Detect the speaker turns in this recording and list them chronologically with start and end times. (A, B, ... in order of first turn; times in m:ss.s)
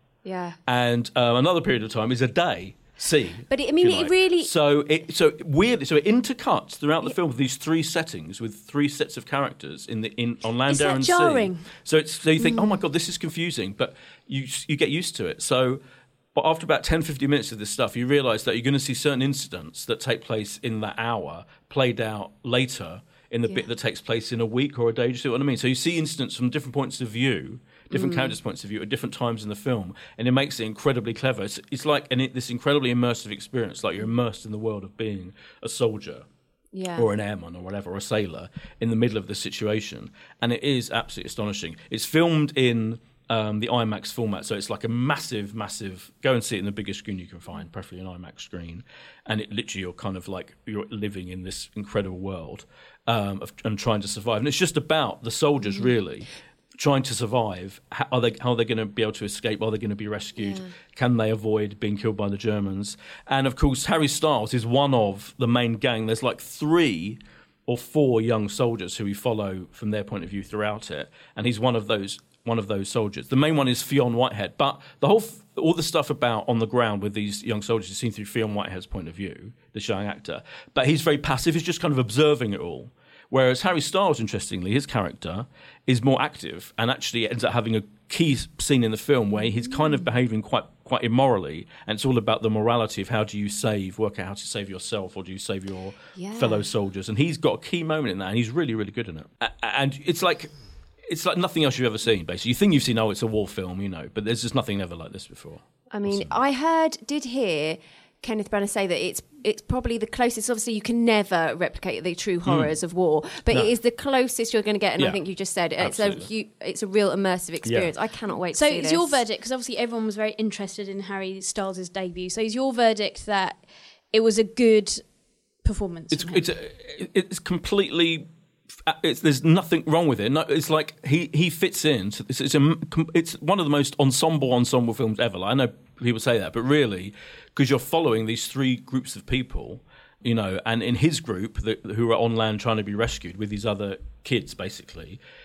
0:00.2-0:00.6 A
0:00.6-0:15.8 B
0:03.5-0:04.5 A
0:10.7-0:11.6 C
0:16.3-0:36.2 B
0:27.9-0:28.4 A
0:36.7-0:37.1 A
0:36.9-1:40.5 B
1:00.4-1:00.7 A
1:36.2-1:36.6 A
1:41.1-1:46.4 B
1:45.9-1:59.2 A
1:52.4-1:52.7 B
1:55.8-1:56.3 B
1:57.6-1:57.9 B
1:58.5-2:03.6 C
2:04.1-2:05.0 C
2:05.6-2:06.4 C
2:06.1-2:08.3 B
2:08.8-2:25.2 B